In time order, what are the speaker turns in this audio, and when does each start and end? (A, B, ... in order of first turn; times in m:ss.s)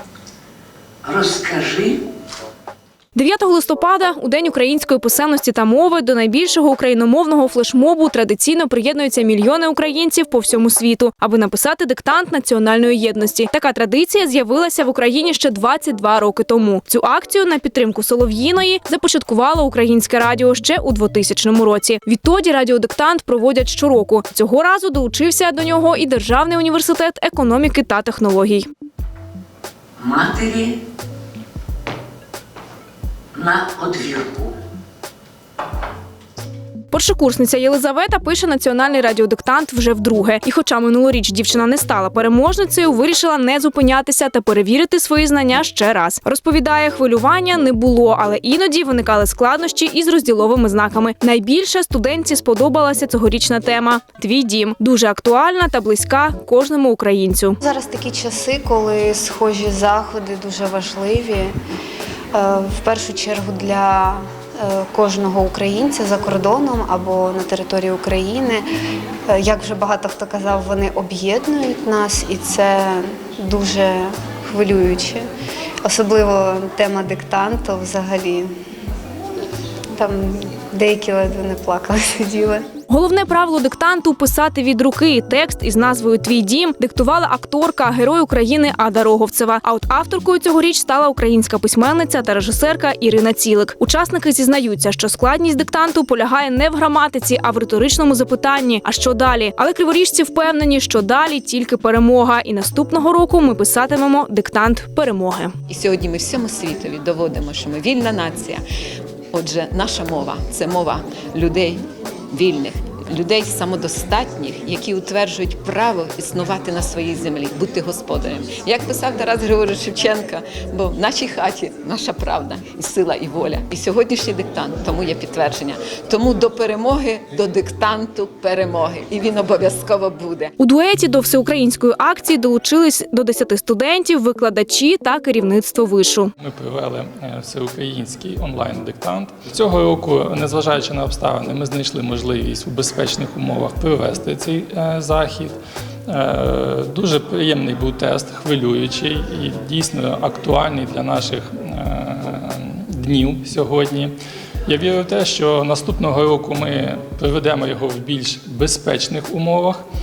0:01.0-0:02.0 A
0:03.1-0:28.7 B
0:30.0-0:30.8 A
0:33.3-0:34.5 A
0:36.9-0:57.6 B
0:57.6-1:01.5 C
1:02.3-1:08.6 C
1:09.3-1:15.2 C
1:15.8-1:18.5 C
1:20.0-1:22.6 C
1:22.9-1:45.5 B
1:45.7-1:48.6 D
1:49.3-2:10.5 D
2:10.6-2:16.3 B
2:16.4-2:34.1 E
2:34.7-2:39.8 E